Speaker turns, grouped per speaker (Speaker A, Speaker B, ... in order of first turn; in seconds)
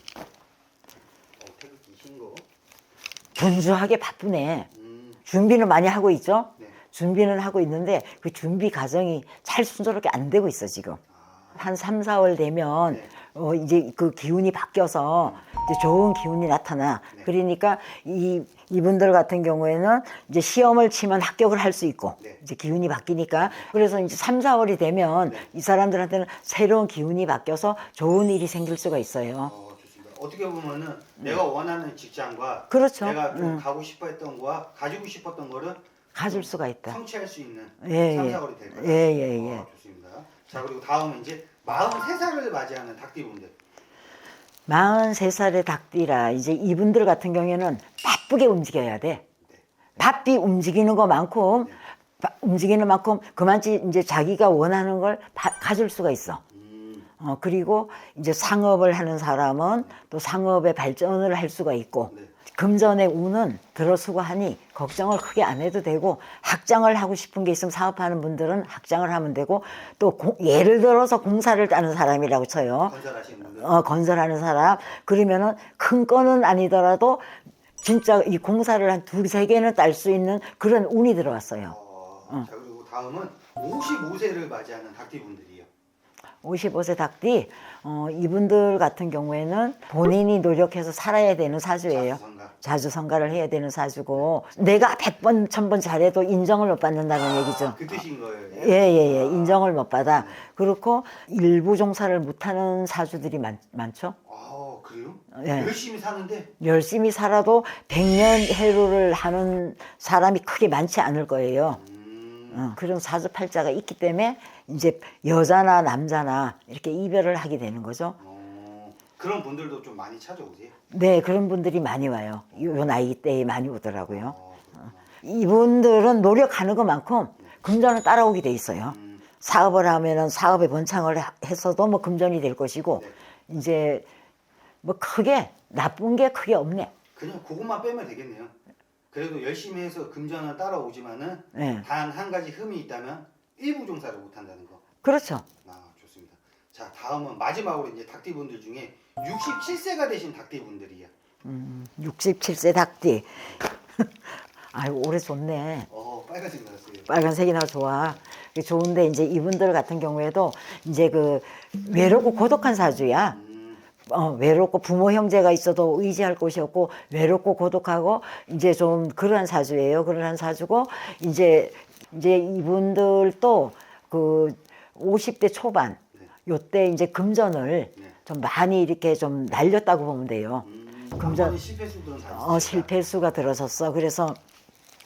Speaker A: 1.4-2.5, 4.7-5.2, 11.1-11.6, 29.4-43.5, 56.5-57.1, 72.9-73.8, 81.7-85.7, 91.9-92.5, 97.7-100.4, 104.2-106.5, 111.7-112.7, 118.2-120.8, 124.1-125.1, 128.8-129.2, 137.1-138.5, 139.1-144.8, 145.6-151.1, 155.9-157.1, 163.3-163.8, 180.6-182.9
Speaker B: 3.4-4.7, 5.3-11.0, 11.6-29.5, 32.7-33.6, 36.1-37.0, 37.8-39.6, 44.7-49.2, 50.0-56.4, 57.2-73.0, 73.6-77.3, 77.8-81.8, 86.4-98.0, 98.5-104.2, 105.4-105.7, 106.6-111.8, 112.5-118.2, 120.9-124.3, 125.2-134.1, 134.8-136.9, 141.5-141.9, 145.0-145.5, 151.4-153.4, 154.0-155.9, 157.1-163.4, 164.1-180.7, 181.2-181.6, 182.3-184.4